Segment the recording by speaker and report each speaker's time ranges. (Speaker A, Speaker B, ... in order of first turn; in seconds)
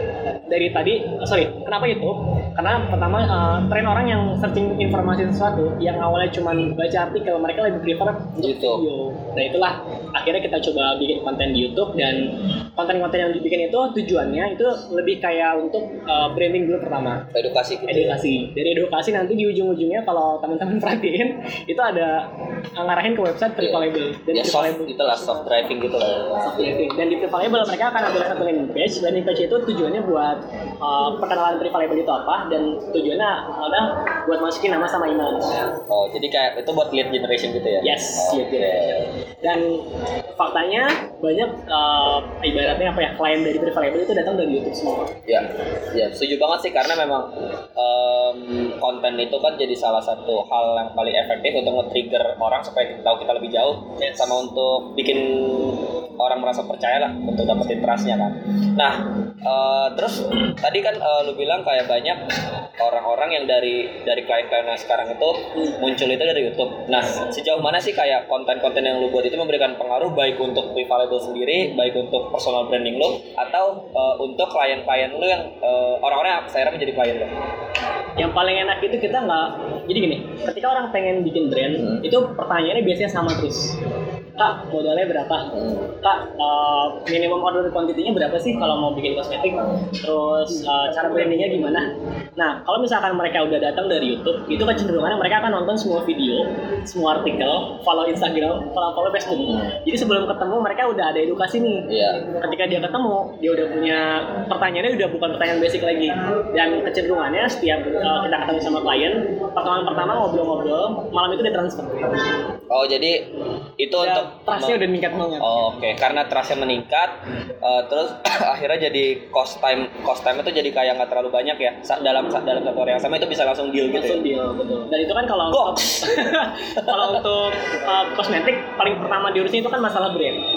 Speaker A: 0.5-17.3, 17.9-22.3, 22.8-25.3, 26.4-35.7, 37.8-39.8, 40.4-45.1, 78.2-83.8, 84.4-85.5, 86.0-112.2, 114.0-115.6, 123.9-130.4
Speaker B: 8.4-8.8, 17.3-18.2, 23.6-26.7, 35.9-39.0, 45.3-62.2, 62.8-77.3, 85.5-85.9, 101.9-102.2, 112.7-113.3, 113.8-114.8, 115.4-124.2, 125.5-126.2, 126.8-127.2